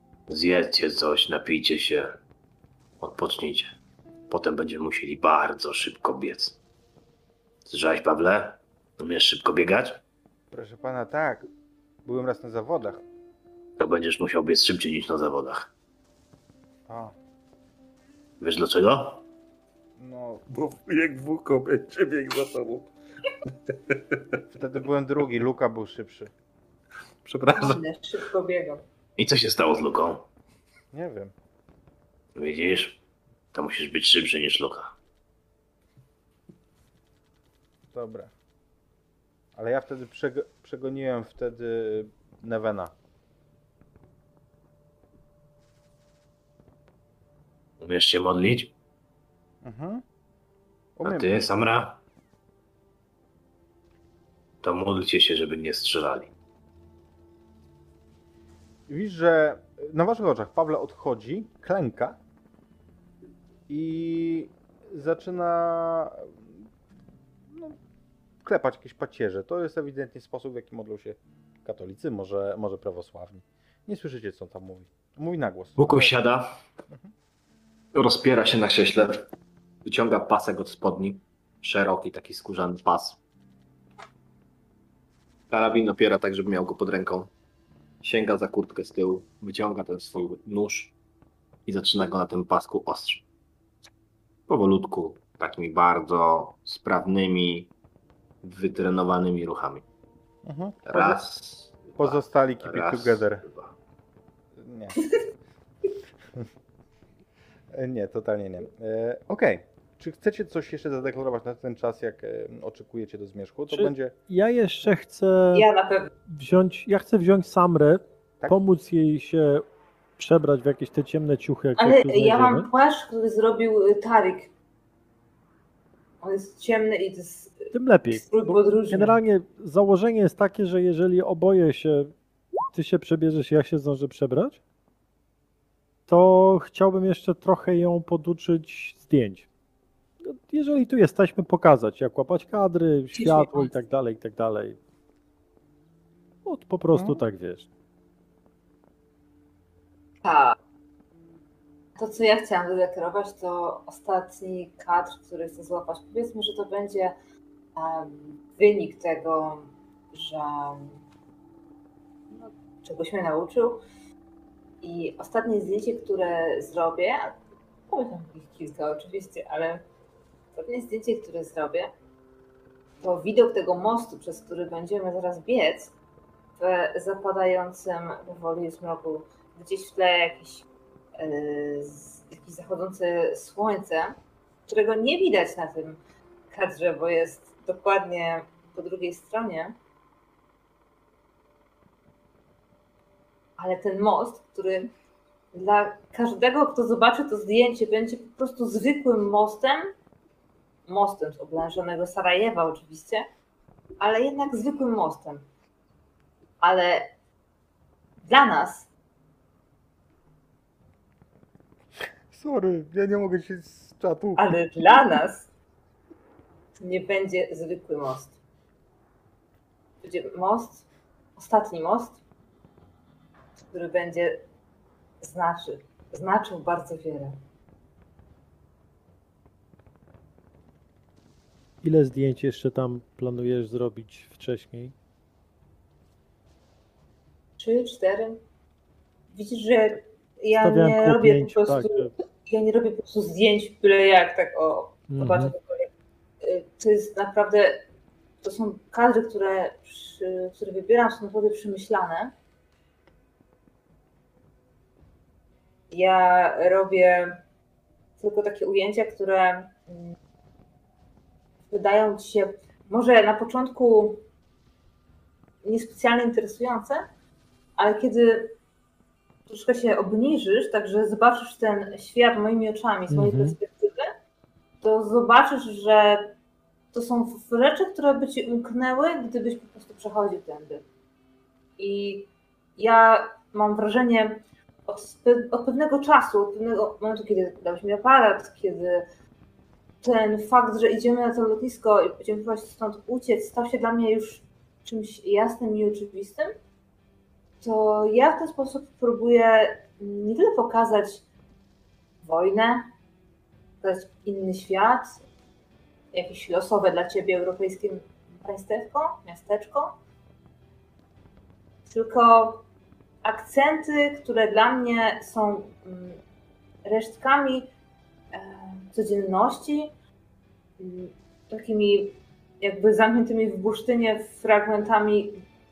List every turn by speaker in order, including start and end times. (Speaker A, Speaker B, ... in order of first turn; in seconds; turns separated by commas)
Speaker A: 0.3-2.2, Speaker A: 3.0-3.8, Speaker A: 4.3-6.6, Speaker A: 7.7-10.0, Speaker B: 10.5-11.5, Speaker B: 12.1-13.0, Speaker A: 13.8-15.7, Speaker B: 16.9-17.1, Speaker A: 18.4-19.2, Speaker B: 20.0-20.4, Speaker C: 20.5-22.9, Speaker C: 23.7-24.4, Speaker B: 24.5-26.3, Speaker C: 27.2-27.8, Speaker D: 27.6-28.8, Speaker A: 29.2-30.3, Speaker B: 30.9-31.3, Speaker A: 32.4-33.0, Speaker A: 33.5-34.9, Speaker B: 37.9-38.3, Speaker B: 39.5-42.9, Speaker A: 47.8-48.7, Speaker B: 49.6-50.0, Speaker B: 51.0-51.4, Speaker A: 51.0-52.0, Speaker A: 54.6-56.3, Speaker B: 58.9-62.2, Speaker B: 63.7-66.7, Speaker B: 67.5-67.8, Speaker B: 68.4-76.1, Speaker A: 75.8-76.5, Speaker A: 77.9-79.3, Speaker A: 79.8-83.2, Speaker A: 85.5-87.3, Speaker A: 88.0-90.9, Speaker A: 91.7-93.2, Speaker A: 94.5-97.7, Speaker A: 98.4-99.8, Speaker B: 100.5-101.2, Speaker A: 100.9-103.7, Speaker B: 102.0-103.5, Speaker B: 104.6-105.0, Speaker B: 107.7-114.1, Speaker E: 113.7-115.7, Speaker D: 115.5-116.1, Speaker E: 116.3-119.7, Speaker E: 120.2-122.7, Speaker D: 121.8-124.5, Speaker D: 126.2-129.2, Speaker E: 127.7-132.1, Speaker E: 132.7-134.6, Speaker E: 136.1-139.5, Speaker E: 140.2-144.8, Speaker D: 143.2-143.7, Speaker E: 146.5-147.7, Speaker D: 150.2-150.6, Speaker D: 152.0-157.2, Speaker D: 157.8-161.0, Speaker D: 162.3-163.8, Speaker D: 164.8-167.4, Speaker D: 167.9-169.8, Speaker D: 170.5-171.9, Speaker D: 173.0-175.9, Speaker D: 176.6-180.7, Speaker D: 181.2-189.8, Speaker D: 193.6-194.9, Speaker D: 195.5-199.9, Speaker D: 200.9-203.3, Speaker D: 204.0-205.5, Speaker D: 206.6-207.1, Speaker D: 208.2-208.9, Speaker B: 212.3-214.6, Speaker D: 214.4-215.5, Speaker D: 216.8-218.3, Speaker D: 220.0-220.8, Speaker D: 221.4-222.2, Speaker D: 223.7-224.4, Speaker D: 225.2-227.4, Speaker E: 231.8-234.9, Speaker D: 237.6-238.4, Speaker D: 239.3-245.9, Speaker E: 240.6-242.2, Speaker E: 245.1-245.6, Speaker D: 246.4-247.8, Speaker D: 248.4-252.3, Speaker D: 255.9-257.4, Speaker D: 258.2-260.1, Speaker D: 261.7-264.2, Speaker D: 265.6-267.1, Speaker D: 267.8-268.6, Speaker D: 269.5-274.1, Speaker E: 273.1-273.6, Speaker D: 274.8-276.3, Speaker D: 276.9-280.8, Speaker D: 281.8-289.1, Speaker D: 290.0-296.6, Speaker D: 297.6-301.2, Speaker D: 302.2-302.9, Speaker D: 303.8-305.2, Speaker D: 306.1-310.0, Speaker D: 311.9-312.6, Speaker D: 313.2-316.2, Speaker D: 316.9-317.7, Speaker D: 318.3-319.9, Speaker D: 320.8-325.4